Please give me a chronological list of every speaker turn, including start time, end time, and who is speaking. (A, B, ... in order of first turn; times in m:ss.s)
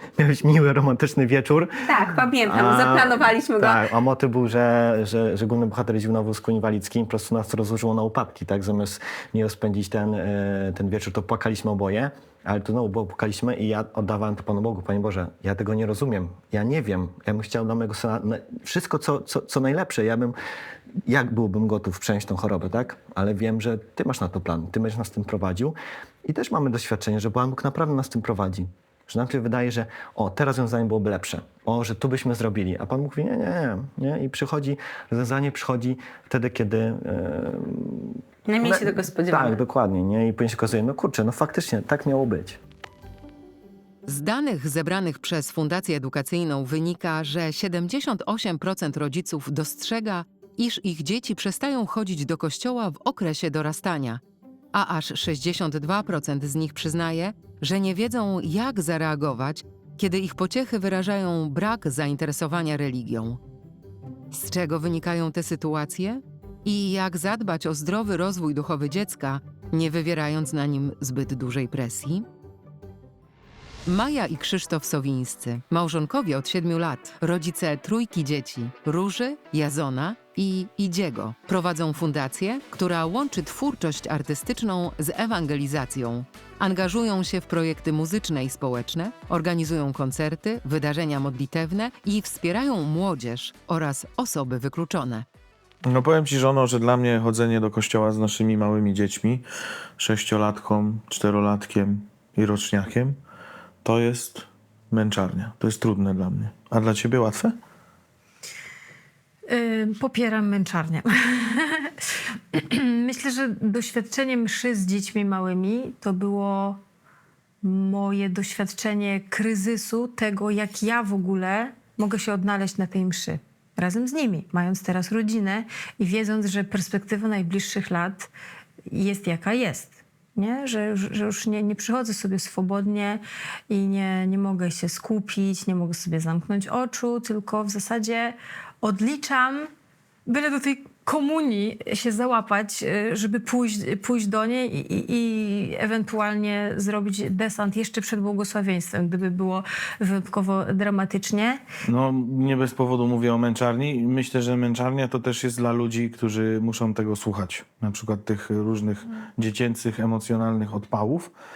0:00.2-0:01.8 A
0:01.9-0:03.9 B
0:02.4-0:20.4 A
0:21.0-0:42.6 A
0:38.5-0:39.6 B
0:44.1-0:54.2 C
0:54.7-1:03.4 C
1:04.3-1:12.3 C
1:13.9-1:35.3 C
1:35.9-1:39.5 D
1:40.0-1:43.2 D
1:43.8-1:47.6 D
1:49.5-1:56.8 E
1:57.6-2:08.3 E
2:08.9-2:19.7 E
2:20.3-2:31.6 E
2:31.8-2:41.3 D